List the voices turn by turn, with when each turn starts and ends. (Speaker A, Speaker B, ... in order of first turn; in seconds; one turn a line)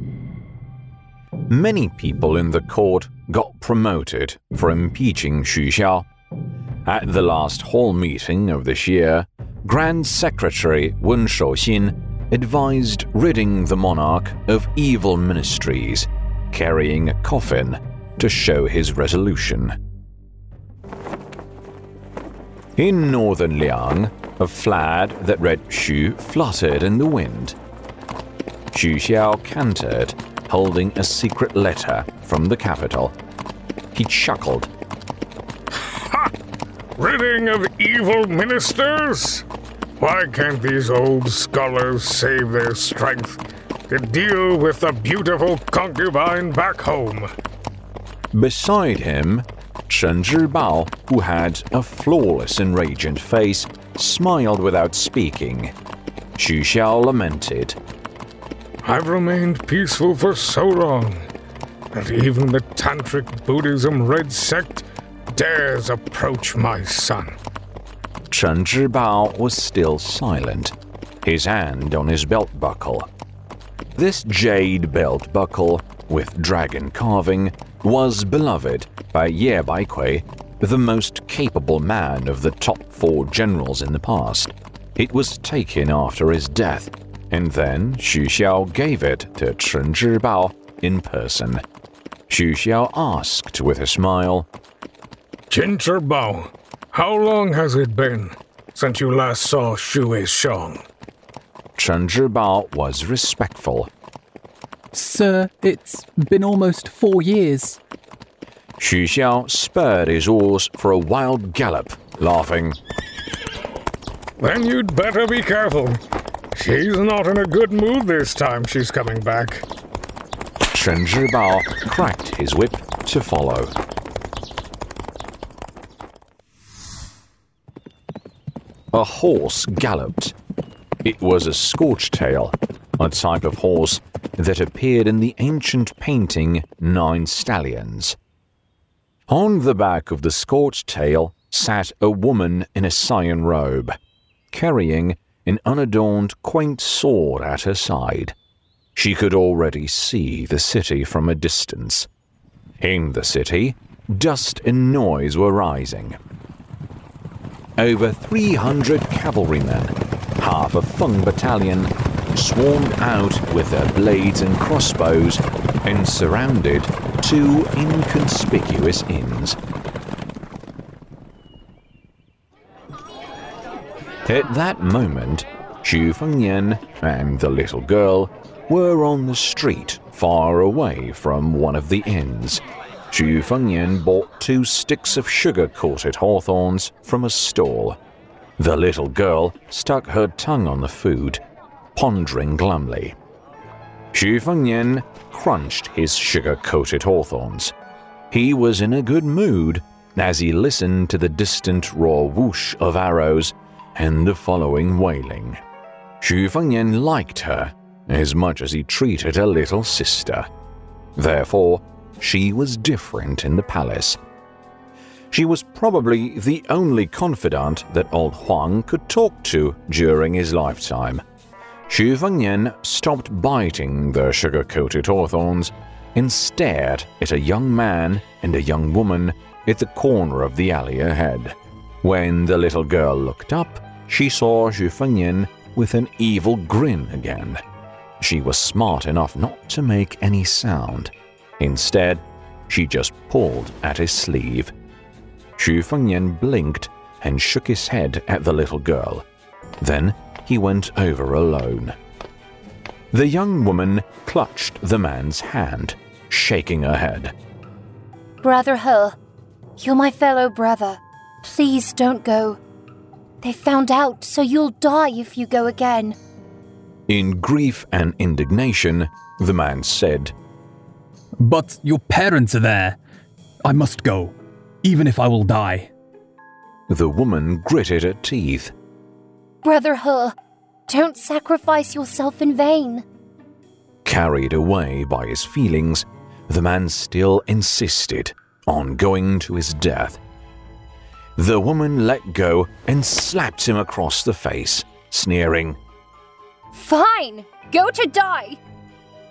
Speaker A: 1.5-6.1
Speaker A: 6.9-19.8
Speaker A: 22.8-27.6
Speaker A: 28.7-33.1
Speaker A: 33.9-34.7
Speaker B: 35.8-36.3
Speaker B: 37.0-39.5
Speaker B: 40.0-47.3
Speaker A: 48.3-55.7
Speaker A: 56.4-57.8
Speaker B: 58.8-61.3
Speaker B: 61.9-67.4
Speaker A: 68.3-73.1
Speaker A: 74.0-91.6
Speaker A: 92.3-94.5
Speaker B: 95.5-100.8
Speaker A: 101.8-103.9
Speaker C: 104.9-107.8
Speaker A: 108.8-112.8
Speaker B: 114.4-116.0
Speaker B: 116.5-119.7
Speaker A: 120.7-123.7
Speaker A: 128.9-130.3
Speaker A: 131.0-138.2
Speaker A: 139.3-144.0
Speaker A: 144.5-148.3
Speaker A: 149.0-152.1
Speaker A: 152.8-156.2
Speaker A: 157.8-169.6
Speaker A: 174.3-188.0
Speaker A: 188.6-191.4
Speaker A: 191.9-193.2
Speaker A: 194.1-197.7
Speaker A: 198.3-205.6
Speaker A: 206.2-210.5
Speaker A: 211.2-214.2
Speaker A: 215.3-221.2
Speaker A: 221.9-237.6
Speaker A: 238.2-244.7
Speaker A: 245.6-249.2
Speaker A: 249.8-252.0
Speaker A: 253.1-257.3
Speaker D: 258.4-259.2
Speaker D: 259.8-262.6
Speaker D: 263.4-266.2
Speaker A: 267.1-270.3
Speaker C: 271.4-273.0
Speaker C: 273.6-275.9
Speaker A: 276.9-278.7
Speaker D: 279.6-280.3
Speaker D: 280.9-283.0
Speaker A: 284.1-290.2
Speaker A: 291.4-295.8
Speaker D: 296.7-298.6